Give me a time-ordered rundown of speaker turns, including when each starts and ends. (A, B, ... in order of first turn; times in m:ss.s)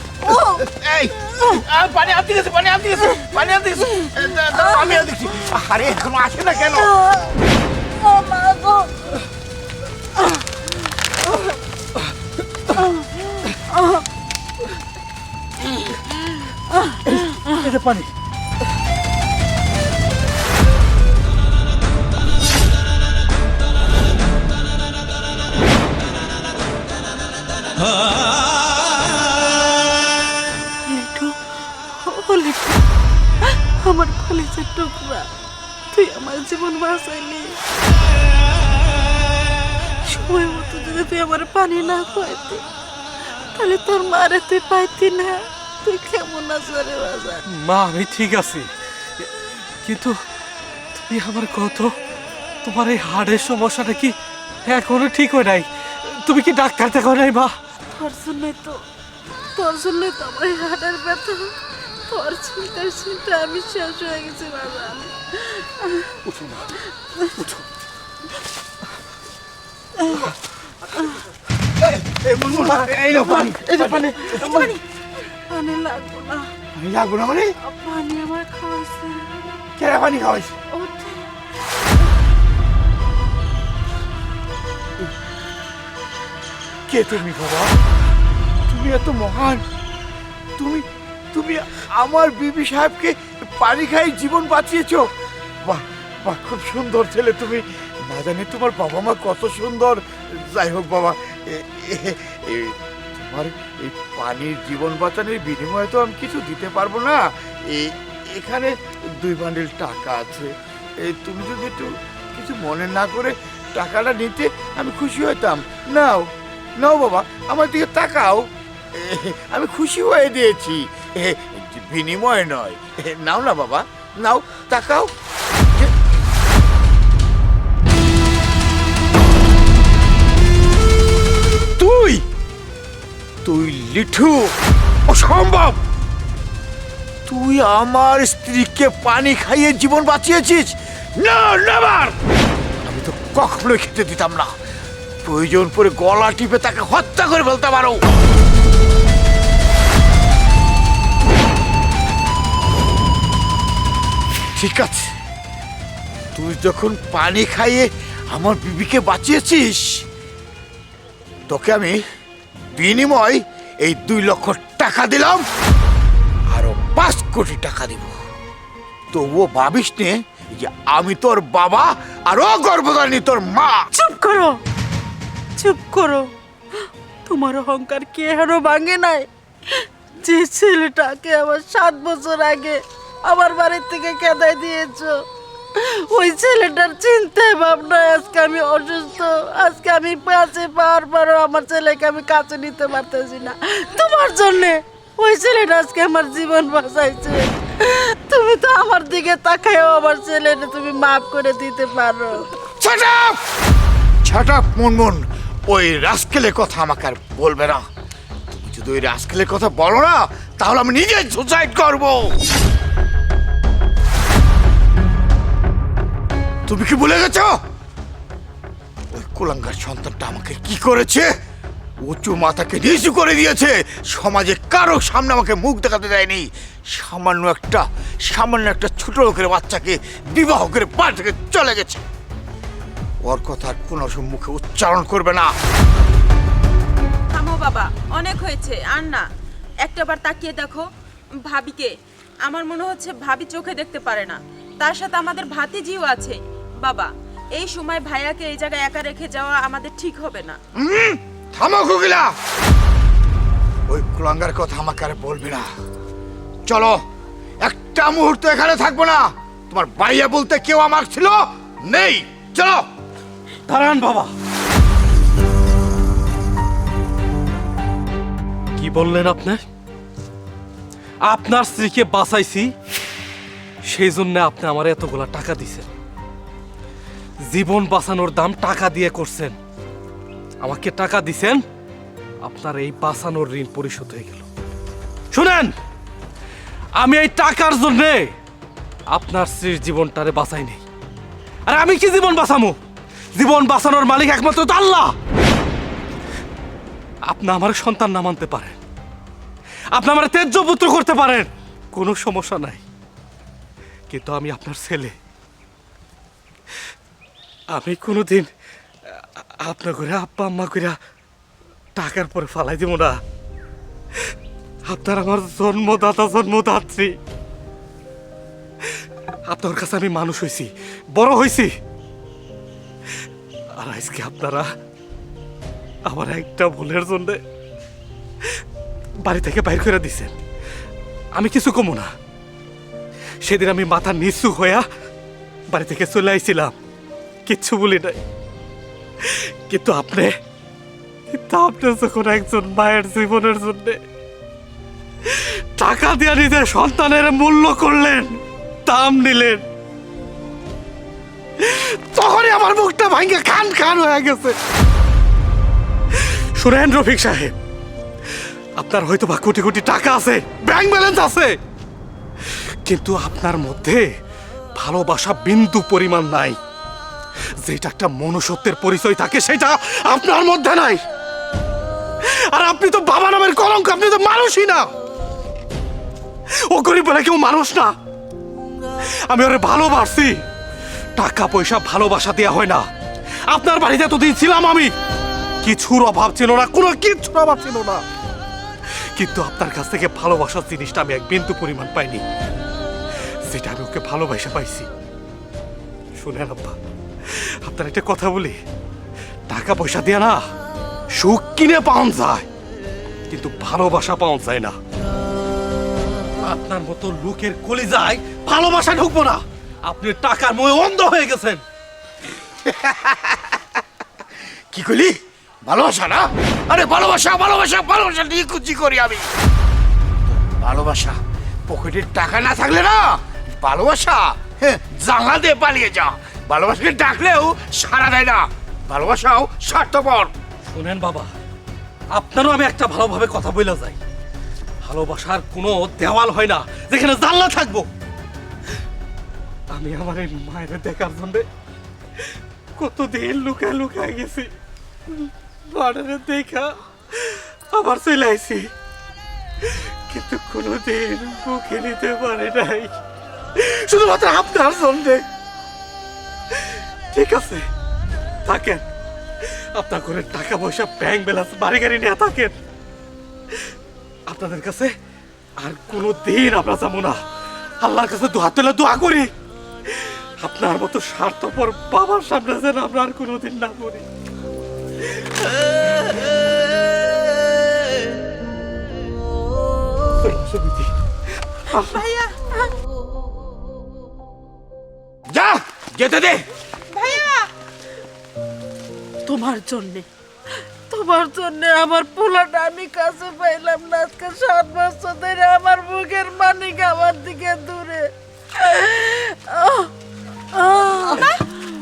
0:00.2-0:00.7 A
0:00.4-0:07.0 B
0:06.9-0:07.3 A
0:08.0-0:08.9 A
0:17.2-0:18.1 C
0:30.9-0:31.4 A
0:31.9-0:32.8 A
0:33.4-0:35.3 A
0:35.9-0:37.6 A
0:40.0-0:42.6 A
0:43.5-0:47.4 A
0:47.5-0:48.7 C
0:49.8-0:50.2 C
0:50.9-0:52.0 C
0:52.6-0:57.6 C
0:58.0-0:58.8 A
0:59.6-1:01.5 A
1:02.1-1:06.2 A
1:06.3-1:06.7 C
1:11.8-1:14.5 B
1:12.3-1:14.7 C
1:13.8-1:16.5 A
1:16.7-1:17.5 B
1:17.6-1:19.3 A
1:19.8-1:20.6 B
1:20.7-1:21.3 A
1:26.9-1:27.8 B
1:28.7-1:29.6 B
1:30.6-1:35.1 B
1:35.6-2:05.1 B
2:11.8-2:12.2 B
2:13.4-2:14.5 B
2:15.1-2:15.8 B
2:17.3-2:22.2 B
2:22.8-2:24.5 B
2:25.2-2:28.0 B
2:34.6-2:35.1 B
2:36.3-2:40.1 B
2:41.5-2:42.0 B
2:42.7-2:45.4 B
2:46.5-2:48.2 B
2:49.1-2:53.9 B
2:53.9-2:54.6 A
2:55.6-2:56.3 A
2:57.2-3:05.2 A
3:05.8-3:22.5 A
3:22.8-3:23.4 B
3:24.2-3:27.8 B
3:28.5-3:32.4 B
3:36.7-3:37.6 B
3:39.1-3:41.3 B
3:42.0-3:52.0 B
3:53.2-3:55.5 B
3:57.3-3:59.3 D
3:59.8-4:00.9 D
4:01.5-4:01.9 D
4:02.4-4:10.6 D
4:10.8-4:12.3 B
4:13.9-4:15.7 B
4:16.7-4:17.0 B
4:17.6-4:22.9 B
4:23.7-4:24.3 C
4:28.8-4:29.6 C
4:31.2-4:32.7 C
4:33.9-4:35.9 C
4:37.4-4:39.6 C
4:40.6-4:41.6 C
4:42.4-4:44.5 C
4:45.3-4:45.7 C
4:47.0-4:48.3 C
4:49.1-4:50.8 C
4:51.7-4:52.8 C
4:53.3-4:55.1 C
4:57.2-4:58.8 C
4:59.9-5:02.8 C
5:04.1-5:05.2 C
5:07.7-5:08.5 C
5:09.1-5:11.0 C
5:12.0-5:13.2 C
5:14.8-5:17.2 C
5:19.4-5:21.7 C
5:23.8-5:24.7 C
5:26.0-5:27.4 C
5:29.2-5:30.4 C
5:31.3-5:32.1 C
5:33.4-5:34.8 C
5:35.7-5:36.8 C
5:37.5-5:38.2 C
5:39.2-5:40.3 C
5:41.3-5:44.0 C
5:45.2-5:49.6 C
5:51.6-5:54.6 C
5:56.1-5:57.5 C
5:58.8-6:01.6 C
6:02.5-6:04.1 C
6:04.8-6:06.6 C
6:07.6-6:11.0 C
6:12.2-6:14.9 C
6:16.5-6:17.9 C
6:19.3-6:20.4 C
6:21.2-6:22.8 C
6:23.5-6:24.9 C
6:25.6-6:28.0 C
6:29.2-6:32.2 C
6:33.5-6:34.9 C
6:36.2-6:38.6 C
6:39.5-6:40.4 C
6:41.1-6:42.5 C
6:43.3-6:44.8 C
6:46.4-6:51.6 C
6:52.6-6:53.6 B
6:54.7-6:59.3 B
7:00.4-7:10.3 B
7:10.7-7:11.3 C
7:12.1-7:14.0 C
7:14.8-7:17.9 C
7:19.7-7:21.5 C
7:22.8-7:24.5 C
7:25.1-7:28.7 C
7:29.6-7:32.9 C
7:33.5-7:35.2 C
7:36.5-7:37.7 C
7:38.4-7:38.8 C
7:39.4-7:42.6 C
7:44.3-7:44.9 C
7:45.6-7:47.2 C
7:47.8-7:49.3 C
7:49.9-7:54.0 C
8:00.2-8:00.9 C
8:01.7-8:02.1 C
8:02.1-8:02.4 D
8:05.3-8:06.4 B
8:06.9-8:07.5 D
8:09.2-8:10.1 A
8:10.9-8:19.9 A
8:20.5-8:21.4 A